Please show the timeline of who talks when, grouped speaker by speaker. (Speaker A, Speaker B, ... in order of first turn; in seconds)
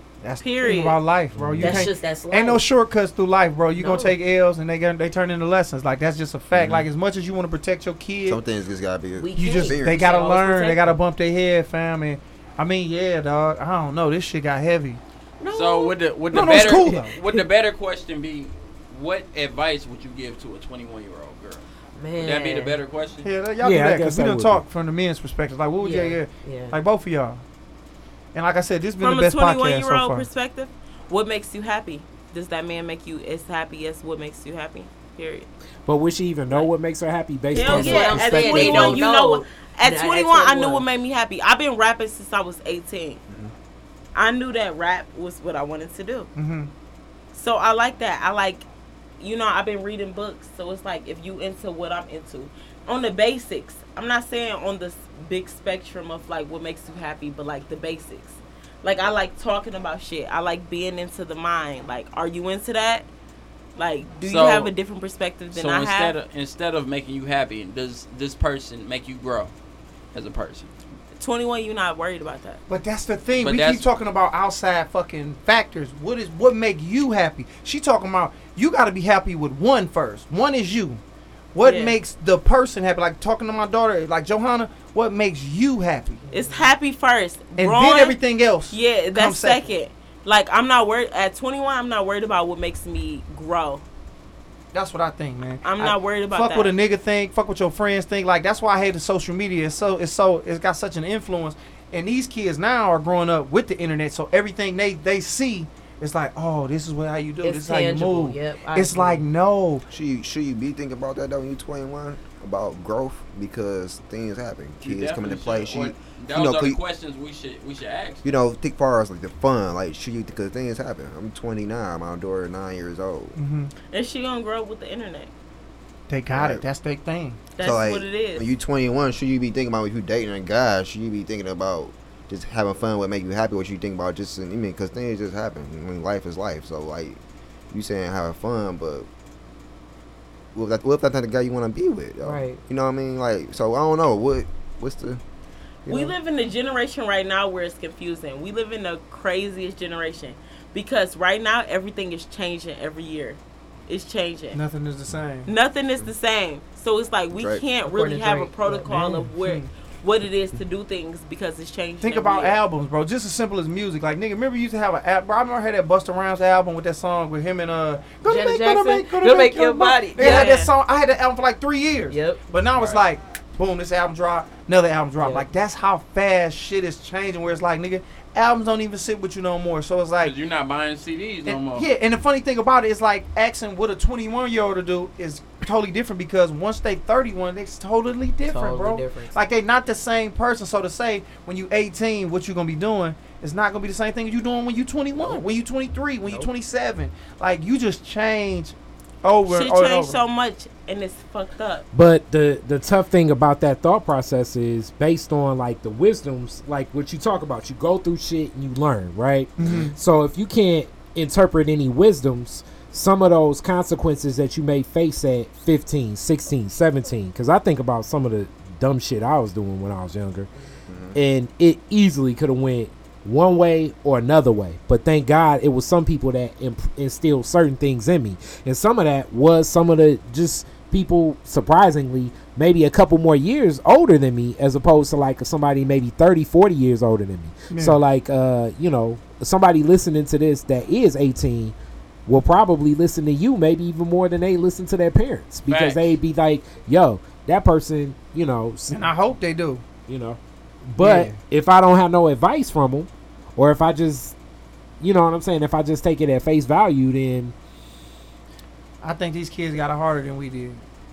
Speaker A: 0.2-8.4, 9.4-15.0, 16.3-17.1, 23.2-27.4, 28.3-30.3, 46.4-46.7, 72.7-81.0, 81.5-86.2, 87.6-89.7, 94.7-109.8, 123.4-123.7, 126.1-127.4, 154.5-155.5, 158.9-159.7, 162.0-180.4, 181.4-200.2, 209.6-209.9, 237.7-238.0, 248.9-249.8, 251.0-251.4, 259.0-260.8
Speaker B: 0.4-1.0, 29.0-35.5, 37.5-43.2, 44.1-46.3, 47.3-48.6, 49.2-63.1, 63.8-66.1, 71.2-72.6, 81.6-82.0, 86.3-88.2, 88.7-93.8, 95.6-96.7, 123.9-125.3, 127.5-128.5, 145.9-154.6, 155.5-162.6, 170.2-170.7, 199.4-201.8
Speaker C: 1.4-1.8, 6.5-6.9, 8.3-10.1, 109.9-116.8, 118.2-123.4, 126.3-126.6, 127.6-137.2, 137.7-139.1, 140.5-145.2, 157.3-157.6, 209.6-209.9, 220.9-221.2
Speaker D: 1.4-1.8, 23.6-24.6, 35.9-39.0, 201.9-220.5, 221.2-241.7, 242.3-249.1, 250.1-254.4, 255.0-257.5
Speaker E: 1.6-2.6, 3.8-4.1, 9.2-11.0, 15.4-15.9, 21.9-22.8, 25.8-26.8, 37.5-40.9, 86.3-86.7, 107.4-109.2, 142.2-142.6, 157.8-159.2, 168.2-170.7, 172.1-172.4, 175.2-175.4, 188.4-189.4, 195.2-195.4
Speaker F: 15.5-21.6, 22.2-23.3, 64.2-64.7, 65.5-69.5, 70.1-70.8, 73.4-73.8, 114.8-118.3, 172.8-173.0, 180.2-181.9, 245.7-246.1